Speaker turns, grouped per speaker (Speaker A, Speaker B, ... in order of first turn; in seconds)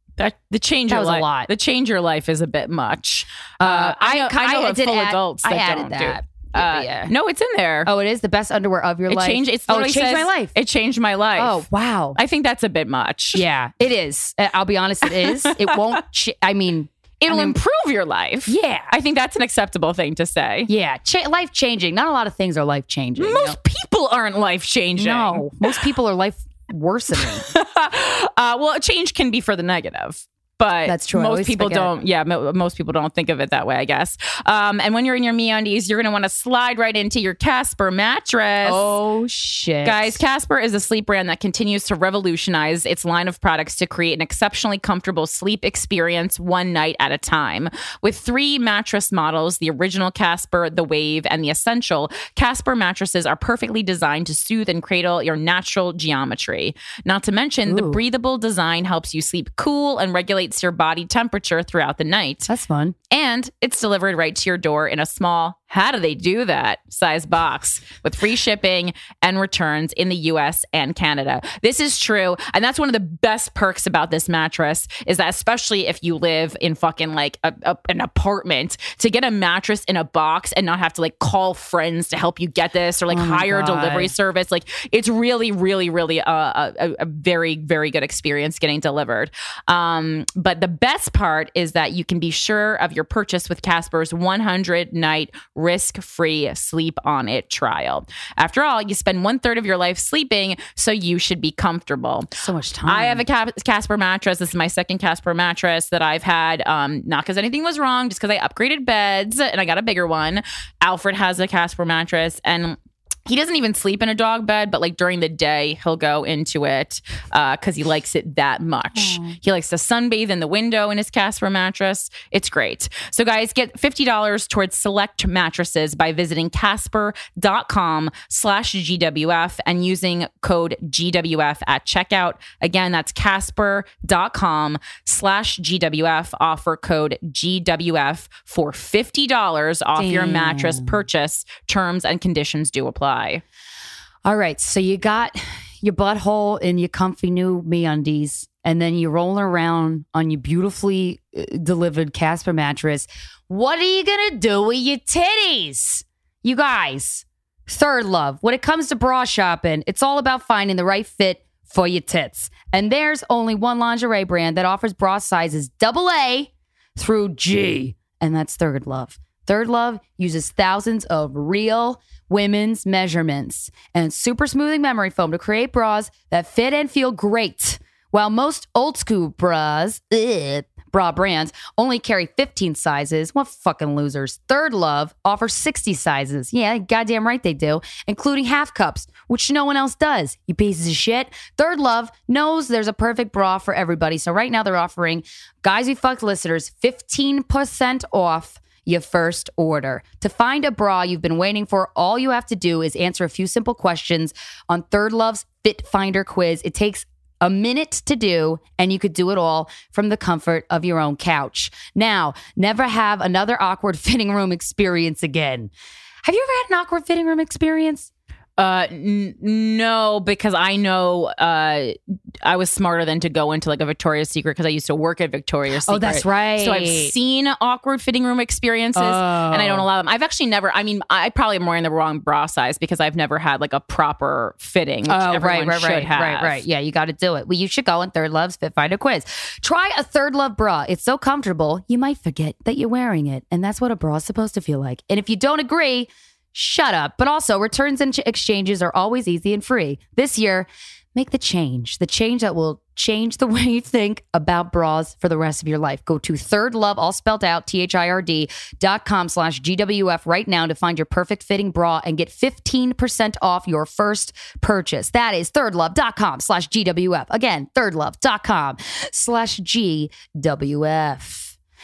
Speaker A: 0.2-7.9, 9.1-11.6, 12.1-13.4, 15.1-16.0, 17.2-20.7, 23.2-25.8, 27.2-38.9, 39.8-62.5, 63.1-102.3, 102.8-143.4, 218.6-236.6
Speaker B: 0.9-1.5, 3.6-7.1, 7.8-10.6, 11.4-12.2, 13.3-17.6, 18.5-18.9, 20.7-23.6, 24.9-27.4, 30.9-31.9, 38.6-40.2, 57.7-58.0, 62.5-63.0, 83.1-84.1, 102.4-103.2, 118.9-119.3, 140.0-141.0, 144.2-215.7, 216.2-218.1, 225.8-227.1, 229.0-229.9, 235.1-271.5